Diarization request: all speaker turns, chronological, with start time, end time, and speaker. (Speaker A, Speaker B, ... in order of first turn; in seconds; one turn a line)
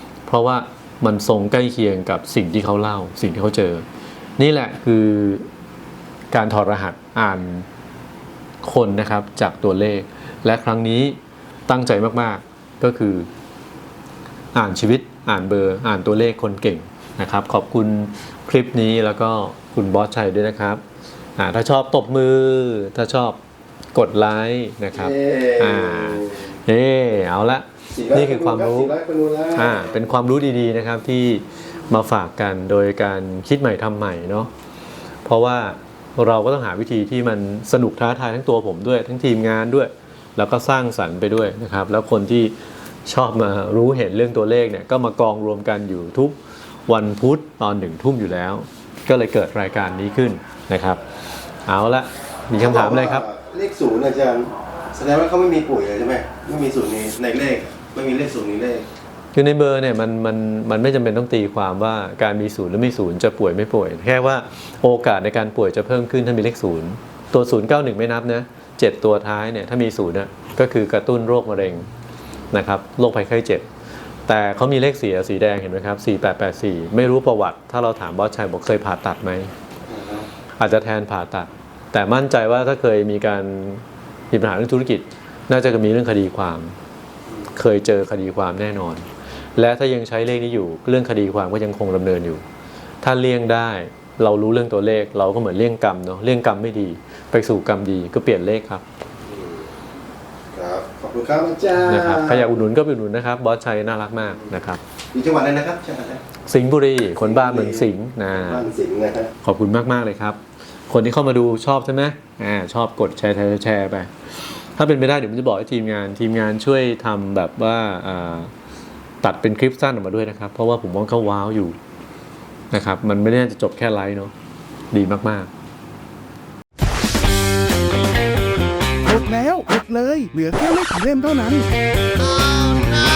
Speaker A: 0.3-3.8
Speaker A: 4.4-5.5
Speaker A: 6.3-7.7
Speaker A: 8.6-11.2
Speaker A: 11.7-13.3
Speaker A: 14.5-20.8
Speaker A: 21.4-23.4
Speaker A: 23.9-28.9
Speaker B: 24.9-26.4
Speaker B: 27.9-29.9
Speaker A: 29.5-34.5
Speaker A: 35.2-42.5
Speaker A: 43.0-51.0
Speaker A: 51.6-53.2
Speaker B: 52.5-58.8
Speaker A: 59.3-71.9
Speaker A: 72.5-73.7
Speaker A: 74.3-79.5
Speaker B: 79.9-80.3
Speaker A: 80.6-86.7
Speaker A: 87.5-89.0
Speaker A: 89.6-92.4
Speaker A: 93.0-98.8
Speaker B: 99.3-99.6
Speaker B: 100.5-102.5
Speaker A: 101.8-104.8
Speaker B: 105.1-106.2
Speaker A: 106.5-108.7
Speaker B: 107.2-109.3
Speaker A: 109.4-114.1
Speaker A: 114.8-118.5
Speaker A: 119.2-121.8
Speaker A: 122.7-124.3
Speaker A: 124.9-125.5
Speaker C: 129.0-131.7